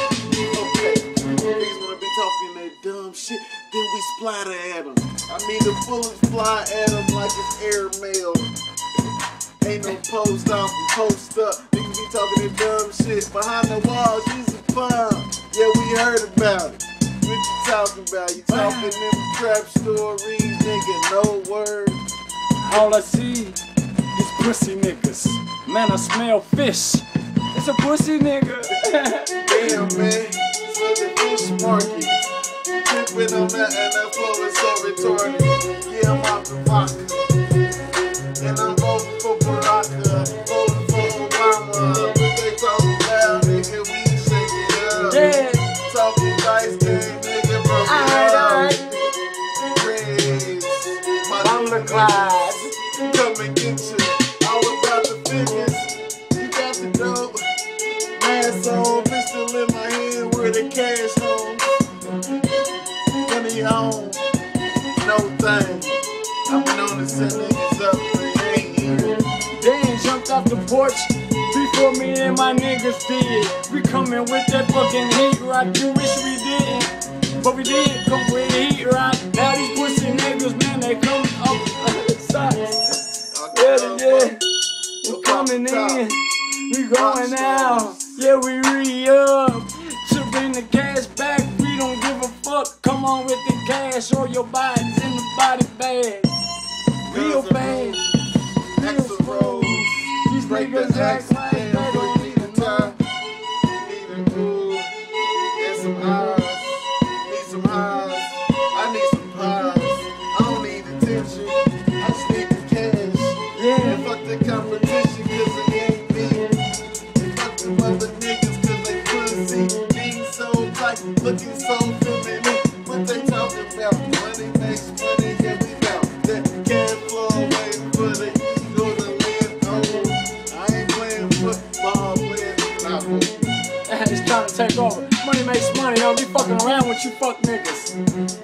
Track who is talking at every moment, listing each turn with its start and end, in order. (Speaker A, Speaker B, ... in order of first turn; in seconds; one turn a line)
Speaker A: 0.4-8.5
Speaker A: 9.6-22.0
Speaker B: 18.5-19.0
Speaker B: 22.6-23.6
Speaker B: 24.1-29.8
Speaker A: 29.4-32.2
Speaker A: 32.8-37.3
Speaker A: 38.4-45.2
Speaker B: 45.1-45.7
Speaker A: 45.8-48.8
Speaker B: 47.8-48.8
Speaker A: 49.7-57.4
Speaker B: 51.4-52.7
Speaker A: 58.2-61.9
Speaker A: 63.2-64.2
Speaker A: 65.0-69.2
Speaker B: 69.6-82.8
Speaker A: 83.3-84.3
Speaker B: 83.5-84.4
Speaker B: 85.0-96.3
Speaker A: 85.0-86.0
Speaker A: 86.9-88.2
Speaker B: 97.0-98.0
Speaker A: 97.1-98.0
Speaker A: 98.8-99.9
Speaker B: 98.8-103.0
Speaker A: 100.4-103.0
Speaker A: 103.7-104.9
Speaker A: 105.6-116.5
Speaker B: 113.5-114.0
Speaker A: 117.2-133.6
Speaker B: 133.9-137.9